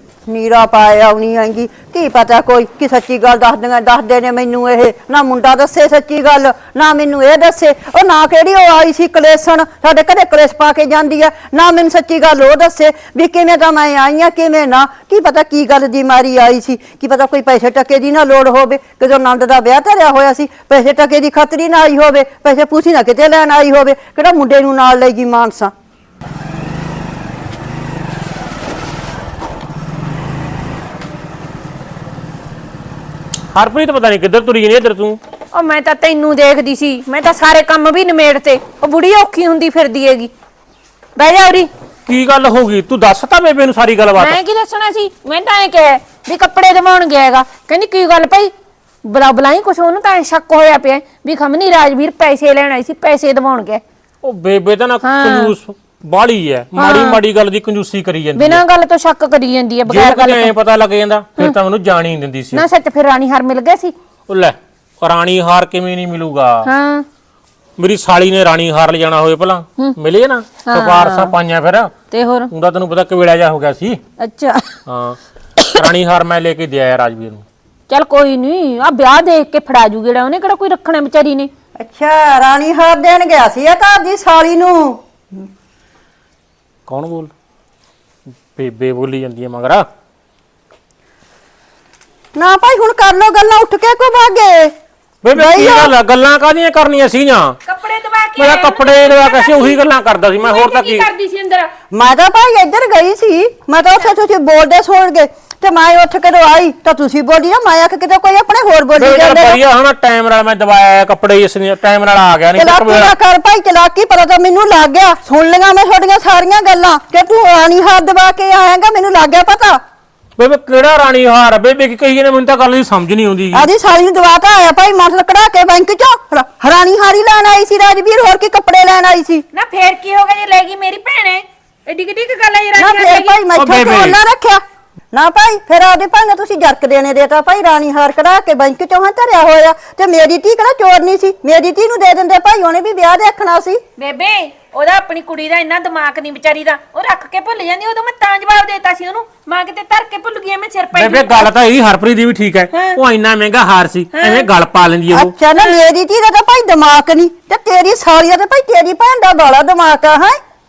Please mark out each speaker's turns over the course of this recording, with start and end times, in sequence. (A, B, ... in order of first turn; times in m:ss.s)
0:00.3-0:25.7 A
0:33.5-0:35.2 B
0:35.5-0:40.3 C
0:41.2-0:41.7 C
0:42.0-0:44.4 B
0:44.2-0:48.5 C
0:49.0-0:53.8 C
0:54.2-0:58.6 B
0:55.0-0:55.5 C
0:56.8-0:57.2 C
0:58.4-1:00.5 C
0:59.9-1:02.6 B
1:02.5-1:03.9 C
1:04.3-1:06.7 B
1:06.6-1:07.0 C
1:07.8-1:11.9 B
1:10.6-1:11.3 C
1:12.1-1:12.5 C
1:12.5-1:14.0 B
1:14.2-1:14.7 C
1:14.8-1:15.2 B
1:15.7-1:17.4 B
1:17.9-1:21.5 C
1:21.8-1:25.0 A
1:26.9-1:27.3 B
1:28.5-1:29.9 B
1:32.3-1:34.7 A
1:35.2-1:37.6 B
1:35.3-1:35.9 A
1:37.6-1:39.8 C
1:38.4-1:41.0 B
1:40.4-1:41.7 C
1:41.9-1:49.6 A
1:49.0-1:53.1 B
1:52.5-1:59.8 A
2:00.4-2:03.7 B
2:03.5-2:09.4 A
2:09.5-2:13.4 C
2:12.8-2:23.8 A
2:13.6-2:14.2 B
2:24.0-2:31.5 C
2:30.9-2:35.3 B
2:32.7-2:33.0 C
2:34.1-2:34.5 C
2:35.1-2:40.4 A
2:35.6-2:35.8 C